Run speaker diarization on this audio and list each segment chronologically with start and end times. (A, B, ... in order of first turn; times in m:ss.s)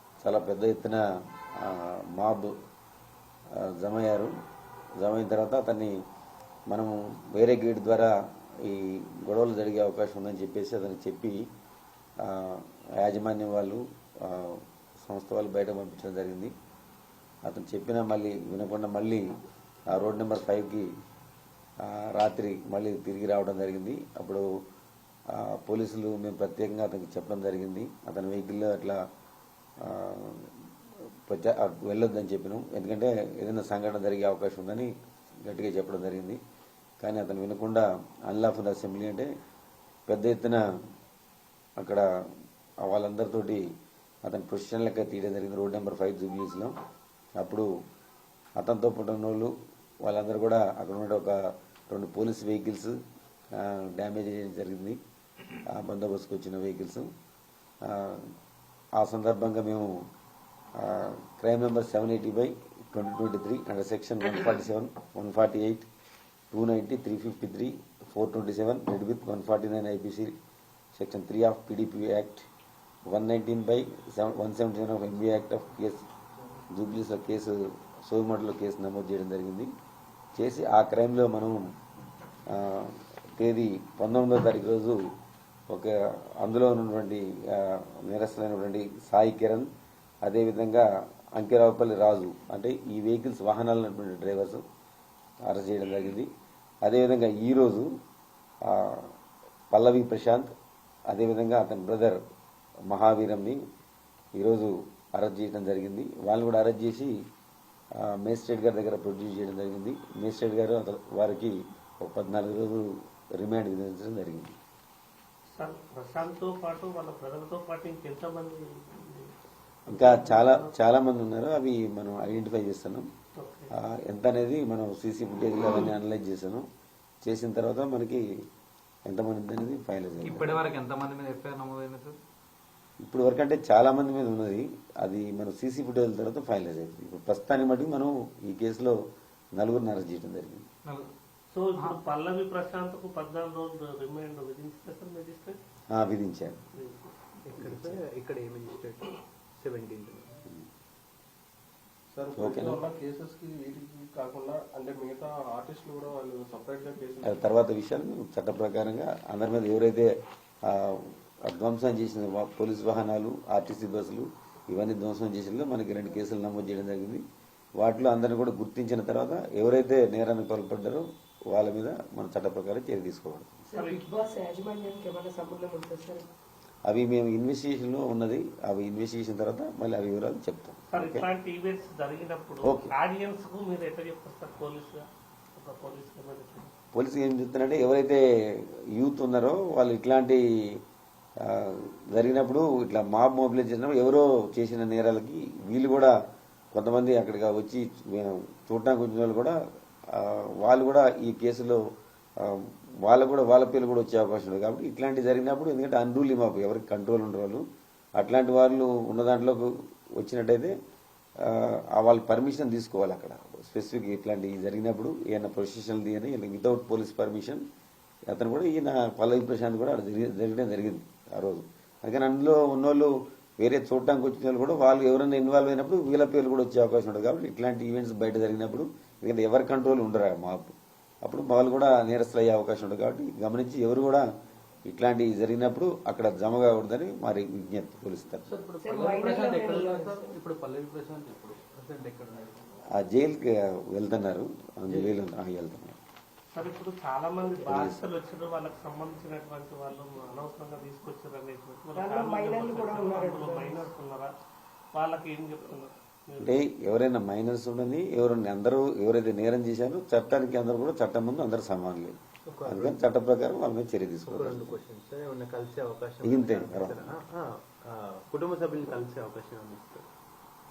0:00.2-0:01.0 A
0:01.6-0:02.5 A
0:03.6-0:04.3 A
0:05.0-0:05.9 A
0:06.7-0:11.4 A
0:12.2-0:16.5 A
0:17.5-0:19.2 A
0:19.9-0:20.9 A
0:21.8-0:24.4 A
0:25.3-0:29.0 A
0:29.8-0:30.5 A
0:31.2-0:34.9 A
0:35.4-0:36.4 A
0:37.0-0:39.3 A
0:40.1-0:40.6 A
0:41.8-0:42.0 A
0:42.8-0:43.6 A
0:44.2-0:46.8 A
0:47.4-0:47.7 A
0:48.6-0:49.5 A
0:50.0-0:51.4 A
0:51.9-0:53.0 A
0:53.6-0:55.0 A
0:55.7-0:57.1 A
0:57.8-0:58.3 A
0:59.0-1:00.0 A
1:00.8-1:05.9 A
1:06.5-1:10.4 A
1:11.0-1:12.5 A
1:13.1-1:16.1 A
1:16.7-1:19.7 A
1:20.4-1:21.6 A
1:22.5-1:25.0 A
1:25.7-1:29.7 A
1:30.2-1:34.6 A
1:35.4-1:36.3 A
1:36.8-1:37.9 A
1:38.7-1:39.1 A
1:39.7-1:40.5 A
1:41.1-1:42.2 A
1:42.9-1:43.6 A
1:44.4-1:47.1 A
1:48.0-1:54.5 A
1:55.6-1:59.3 B
1:59.9-2:00.7 B
1:59.9-2:03.1 A
2:03.4-2:03.7 B
2:03.8-2:06.7 A
2:07.2-2:08.2 A
2:09.1-2:10.6 A
2:10.2-2:12.2 C
2:13.0-2:19.0 A
2:19.6-2:20.6 A
2:21.5-2:25.6 B
2:25.9-2:26.6 A
2:26.8-2:27.2 B
2:27.5-2:30.4 D
2:27.6-2:28.0 A
2:32.1-2:37.4 E
2:32.4-2:32.8 A
2:37.2-2:40.1 A
2:40.7-2:47.2 A
2:47.8-2:53.6 A
2:53.7-2:56.3 F
2:53.7-2:54.1 B
2:56.9-3:01.3 A
3:00.9-3:05.0 B
3:02.7-3:02.9 A
3:05.6-3:06.7 B
3:06.9-3:10.4 A
3:11.4-3:16.1 A
3:16.8-3:19.6 A
3:20.1-3:21.8 A
3:22.4-3:27.6 A
3:28.2-3:30.7 A
3:31.4-3:37.6 A
3:38.3-3:54.2 A
3:54.9-3:58.5 A
3:58.5-4:02.6 C
3:58.8-4:00.4 F
4:03.0-4:06.0 A
4:04.9-4:05.2 C
4:06.5-4:14.3 B
4:07.7-4:08.0 A
4:12.0-4:13.9 F
4:15.0-4:16.6 B
4:16.4-4:22.2 A
4:22.4-4:23.2 D
4:22.7-4:24.8 A
4:24.3-4:30.1 D
4:26.2-4:27.1 A